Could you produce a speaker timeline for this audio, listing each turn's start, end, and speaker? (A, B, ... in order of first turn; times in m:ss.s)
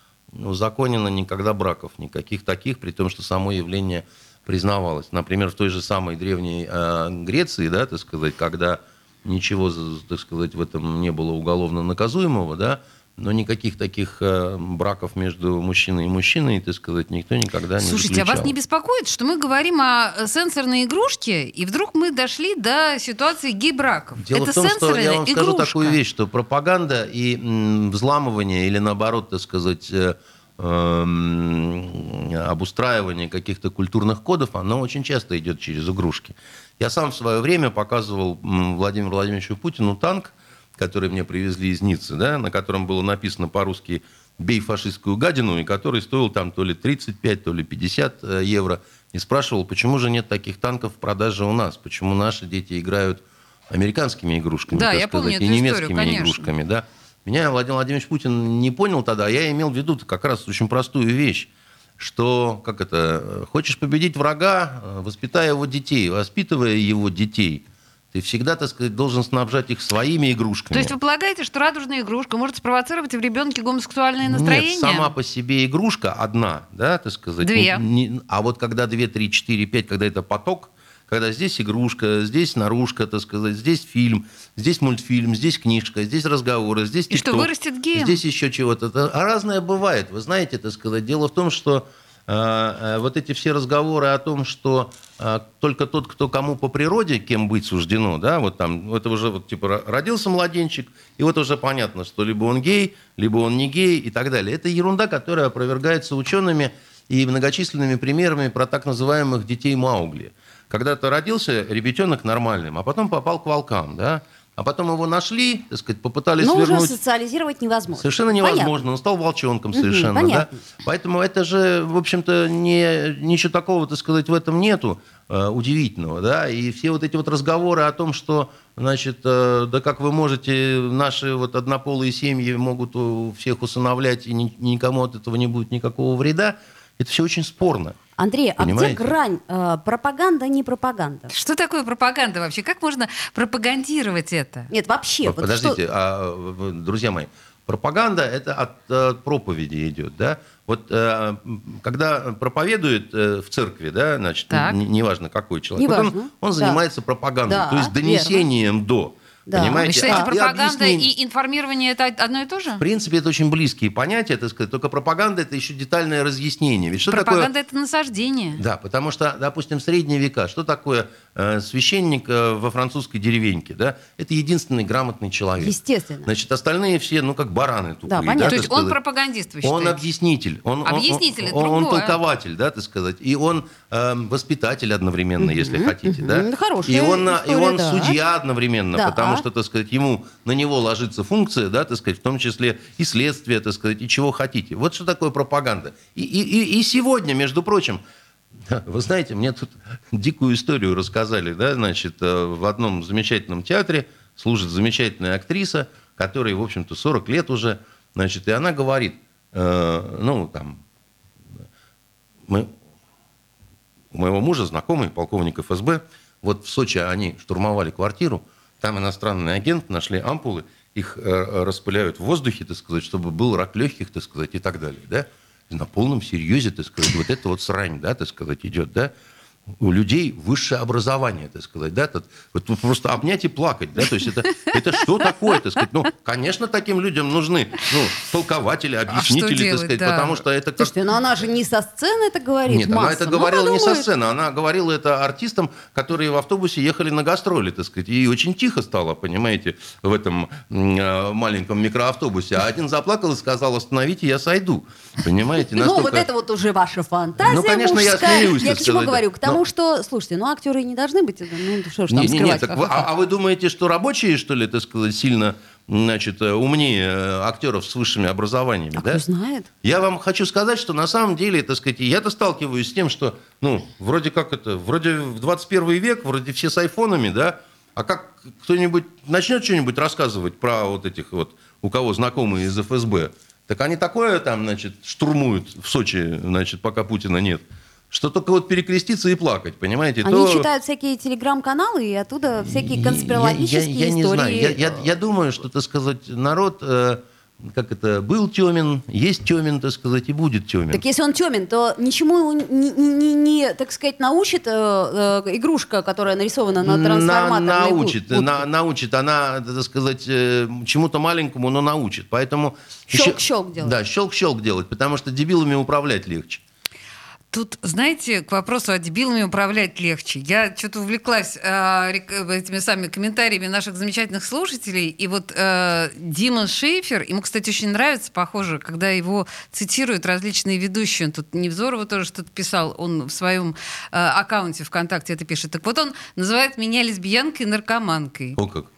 0:00.3-0:18.5 A
0:17.8-0:26.0 B
0:24.2-1:11.0 A
0:54.7-0:56.5 B
1:10.7-1:15.1 B
1:14.2-1:57.0 A
1:17.4-1:17.8 B
1:27.1-1:28.2 B
1:56.4-1:58.8 C
1:58.0-2:18.0 A
1:59.7-2:00.6 C
2:18.2-2:21.3 C
2:18.6-2:19.1 A
2:21.3-2:24.7 B
2:24.7-2:25.8 C
2:25.3-2:41.1 A
2:34.5-2:34.8 B
2:35.8-2:36.8 C
2:37.5-2:38.5 C
2:39.5-2:40.3 C
2:39.8-2:42.8 B
2:42.8-2:47.5 A
2:47.1-2:48.6 B
2:48.6-2:59.0 A
2:55.6-2:56.3 C
2:58.1-2:58.6 C
2:58.5-3:00.0 B
2:59.6-3:18.0 A
3:00.8-3:02.2 B
3:05.4-3:08.2 C
3:09.0-3:09.4 C
3:18.7-3:30.8 A
3:34.1-3:49.1 A
3:49.8-4:00.9 A
3:59.1-4:00.4 B
4:00.8-4:04.1 C
4:02.7-4:16.3 A
4:15.8-4:23.1 C
4:17.4-4:19.6 A
4:22.1-4:29.2 A
4:28.9-4:29.7 C
4:29.8-4:50.7 A
4:50.2-4:55.1 C
4:52.6-5:01.0 A
5:00.9-5:08.7 C
5:06.8-5:16.6 A
5:13.1-5:14.0 C
5:17.5-5:38.6 B
5:38.6-5:38.9 A